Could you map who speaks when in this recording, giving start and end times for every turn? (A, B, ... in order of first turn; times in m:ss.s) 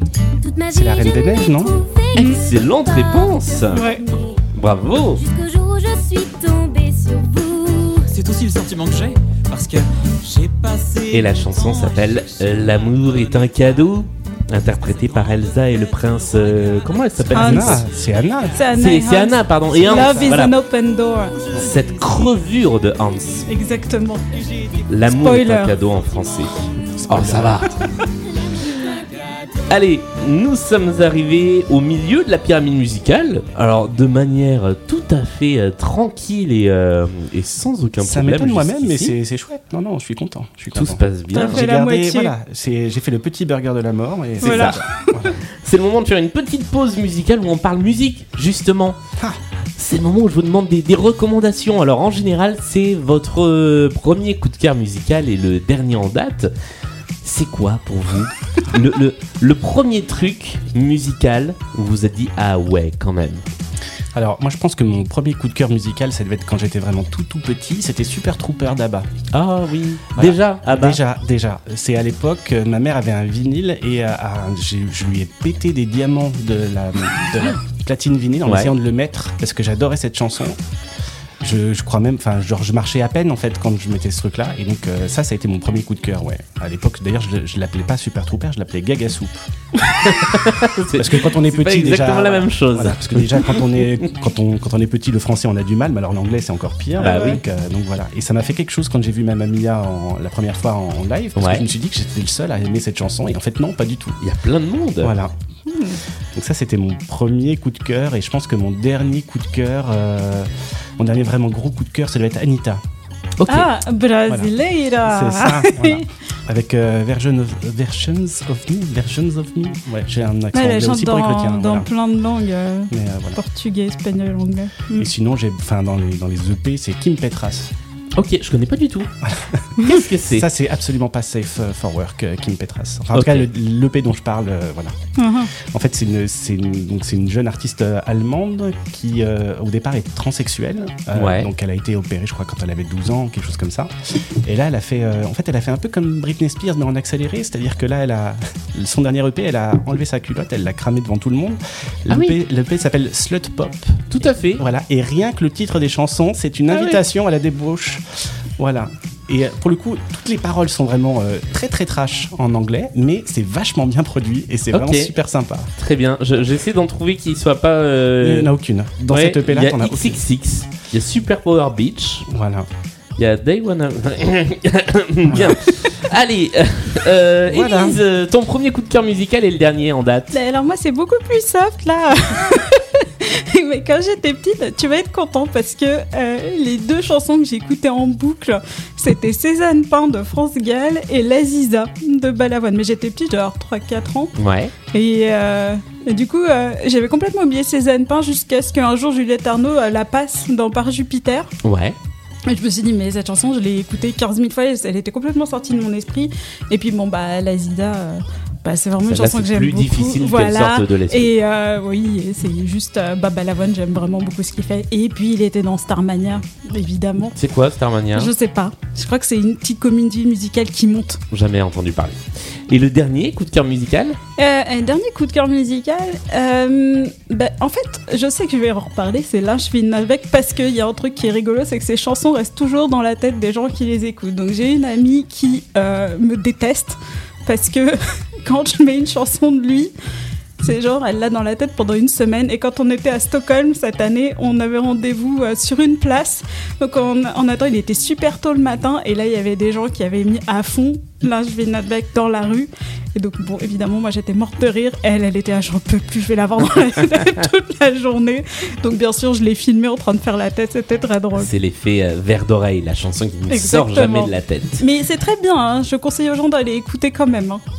0:00.4-0:04.4 A
0:00.7-0:01.8 B
0:02.1-0:03.8 C
0:03.7-0:04.0 D
0:04.5-0:05.2 C
0:05.1-0:08.1 A
0:08.1-0:11.5 E
0:11.1-0:17.9 C
0:17.3-0:18.7 B
0:17.3-0:17.8 D
0:18.5-0:21.4 D
0:18.7-0:20.5 C
0:19.8-0:20.4 B
0:21.5-0:23.5 C
0:23.5-0:24.3 D
0:24.9-0:26.5 C
0:25.0-0:25.8 D
0:27.0-0:27.9 B
0:27.1-0:27.8 C
0:29.7-0:39.1 C
0:38.0-0:45.4 B
0:40.7-0:41.7 C
0:41.3-0:42.3 D
0:44.4-0:44.8 C
0:44.4-0:45.1 D
0:45.6-0:49.0 C
0:49.8-0:56.5 C
0:57.2-1:03.4 C
1:04.1-1:09.1 B
1:09.3-1:11.0 C
1:10.2-1:20.6 B
1:18.4-1:18.7 C
1:21.4-1:29.3 B
1:29.9-1:34.0 C
1:30.9-1:44.2 B
1:37.0-1:37.4 C
1:37.0-1:37.4 D
1:41.4-1:41.6 C
1:44.2-1:45.1 C
1:45.0-1:45.3 B
1:45.7-1:46.0 D
1:46.3-1:52.8 B
1:53.4-1:53.7 C
1:53.5-1:56.0 D
1:55.0-2:01.9 B
2:00.5-2:05.1 D
2:02.9-2:03.4 B
2:04.9-2:07.7 B
2:08.2-2:09.1 C
2:09.2-2:14.9 B
2:09.8-2:10.5 C
2:13.1-2:13.5 C
2:15.2-2:15.5 D
2:15.7-2:23.9 B
2:21.1-2:21.5 C
2:24.4-2:34.1 B
2:32.1-2:32.4 C
2:34.1-2:34.6 C
2:34.6-2:38.0 B
2:36.7-2:37.0 C
2:38.6-2:45.7 B
2:44.7-2:45.1 C
2:45.8-2:48.5 C
2:48.2-2:50.2 B
2:49.1-2:52.2 C
2:52.3-2:52.7 B
2:53.2-3:00.3 C
2:55.3-2:55.6 B
2:57.5-2:58.0 B
3:00.3-3:14.3 D
3:14.4-3:14.7 C
3:14.9-3:21.5 D
3:21.6-3:22.0 C
3:22.5-3:37.4 D
3:29.0-3:31.3 C
3:37.4-3:38.3 C
3:38.1-3:41.2 D
3:41.3-3:42.2 C
3:42.7-3:44.2 C
3:44.4-3:59.9 D
4:00.6-4:21.5 D
4:21.3-4:24.8 C
4:23.5-4:27.6 D